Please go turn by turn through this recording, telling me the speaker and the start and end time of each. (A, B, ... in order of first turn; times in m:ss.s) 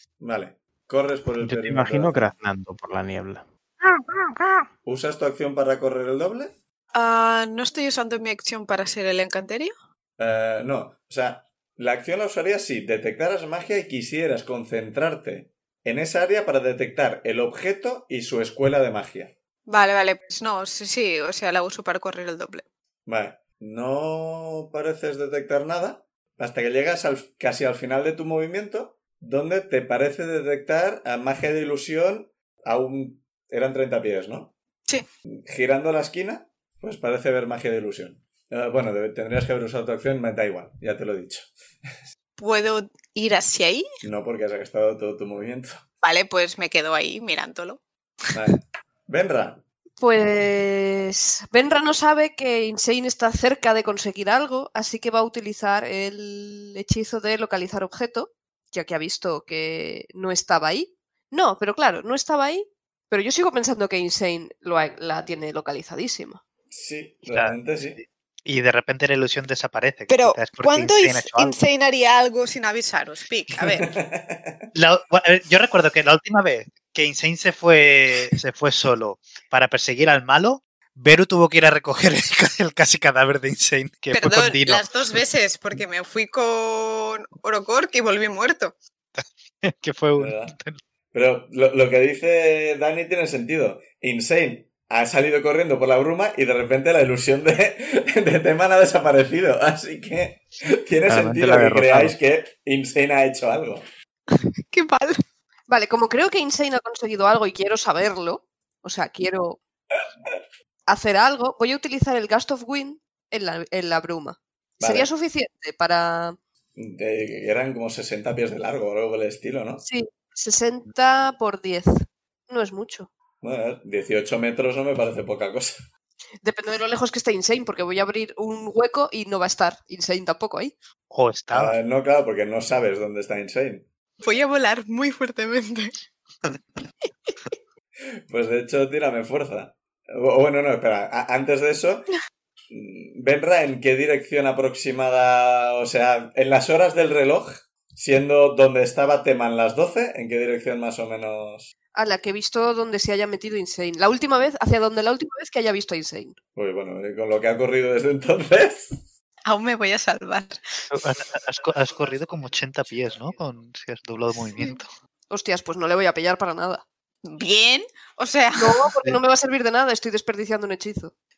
0:00.2-0:02.3 A
0:01.4-0:03.4 B
0:04.8-0:06.5 A
0:06.9-0:09.7 C
0:10.2-0:19.3 A
0:19.7-0:22.6 C
0:23.0-0:34.5 A
0:35.5-0:41.5 A
0:42.4-0:43.8 C
0:44.0-0:45.8 A
0:46.0-0:47.8 C
0:48.3-0:49.6 A
0:50.0-1:06.4 D
1:06.7-1:08.0 A
1:07.3-1:11.6 E
1:10.1-1:13.9 C
1:13.8-1:14.6 A
1:14.7-1:25.0 E
1:24.1-1:28.7 C
1:29.2-1:30.8 E
1:30.2-1:30.5 A
1:31.1-1:43.8 A
1:41.0-1:42.1 B
1:44.3-1:45.2 C
1:45.7-1:49.6 D
1:50.9-1:56.4 D
1:54.8-1:55.1 A
1:56.8-1:59.8 A
1:59.8-2:03.1 D
2:03.4-2:05.8 A
2:06.4-2:10.7 D
2:11.1-2:11.8 E
2:11.5-2:13.8 A
2:14.2-2:15.9 C
2:18.3-2:22.1 A
2:22.7-2:31.7 A
2:31.9-2:36.4 D
2:36.5-2:39.0 A
2:39.4-2:40.9 C
2:40.9-2:44.9 E
2:45.3-2:46.8 D
2:47.2-2:48.9 C
2:48.5-2:51.1 D